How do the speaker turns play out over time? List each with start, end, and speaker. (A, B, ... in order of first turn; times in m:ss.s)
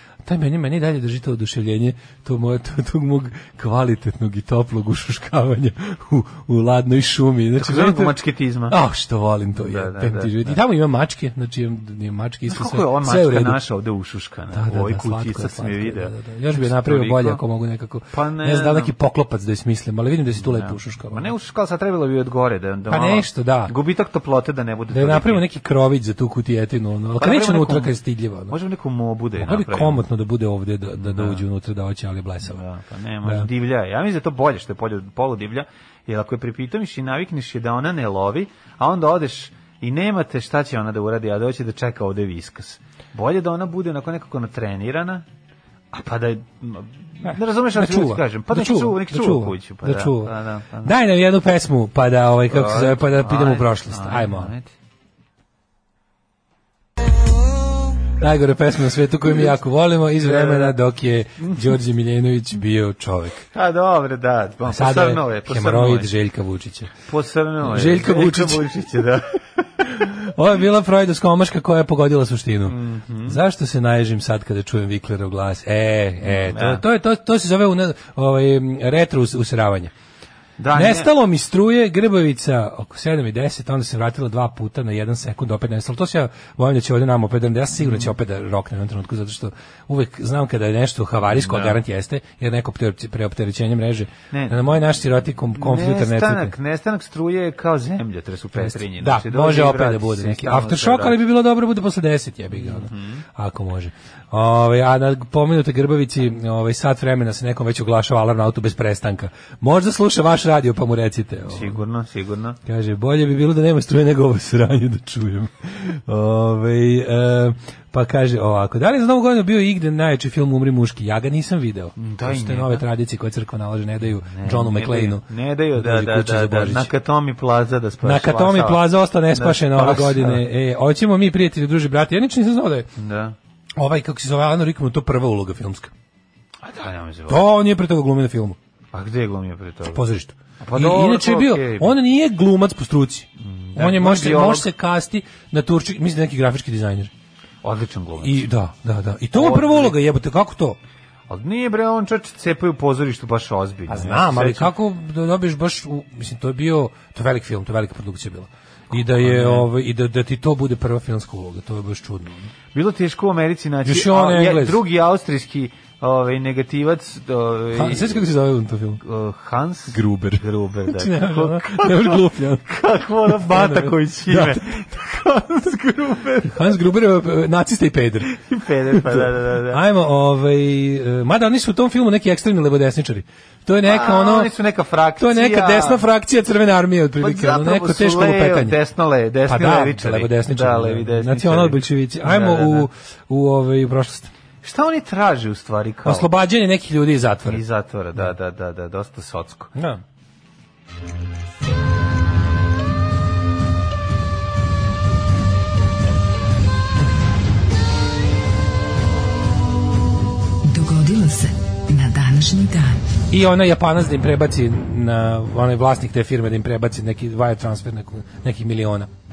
0:00.2-0:08.1 A
0:07.6-0:08.8 B
0:08.7-0:13.6 A
0:09.6-0:10.6 B
0:12.5-0:17.4 B
0:14.5-0:21.3 A
0:18.1-0:18.9 B
0:20.4-0:25.4 B
0:22.9-0:23.7 A
0:24.9-0:28.5 A
0:27.2-0:28.0 B
0:28.5-0:30.0 B
0:29.4-0:32.6 A
0:31.0-0:31.4 B
0:32.4-0:45.2 B
0:33.2-0:33.5 A
0:45.9-0:50.9 B
0:47.2-0:54.5 A
0:52.5-0:54.7 B
0:58.2-1:03.4 A
1:00.2-1:00.8 B
1:03.5-1:06.1 B
1:04.7-1:06.9 A
1:07.1-1:09.6 B
1:07.6-1:08.7 A
1:09.8-1:12.7 A
1:12.6-1:13.4 B
1:13.2-1:19.9 A
1:16.3-1:16.8 B
1:20.6-1:21.1 B
1:20.7-1:36.5 A
1:31.3-1:31.8 B
1:34.3-1:34.7 B
1:35.6-1:41.2 B
1:38.5-1:51.8 A
1:42.5-1:43.2 B
1:51.5-1:52.6 B
1:52.6-2:06.9 A
2:02.0-2:02.8 B
2:04.3-2:10.4 B
2:08.0-2:12.9 A
2:13.0-2:13.4 B
2:13.8-2:15.9 A
2:16.6-2:17.4 B
2:17.3-2:18.6 A
2:18.9-2:20.0 B
2:19.9-2:27.1 A
2:20.6-2:21.9 B
2:23.4-2:24.7 B
2:27.6-2:28.5 B
2:28.2-2:30.8 A
2:29.3-2:30.0 B
2:31.3-2:34.7 B
2:33.9-2:42.5 A
2:38.9-2:39.7 B
2:42.7-2:48.3 B
2:43.8-2:44.8 A
2:47.7-2:49.0 A
2:49.0-2:56.8 B
2:49.9-2:52.6 A
2:53.2-2:54.6 A
2:56.4-2:58.3 A
2:58.3-2:59.8 B
2:58.9-3:04.5 A
3:03.8-3:06.0 B
3:05.2-3:08.8 A
3:07.2-3:12.9 B
3:09.5-3:14.3 A
3:14.6-3:16.3 B
3:16.0-3:17.6 A
3:17.4-3:19.7 B
3:19.7-3:20.0 A
3:30.6-3:33.0 C
3:33.3-3:39.1 A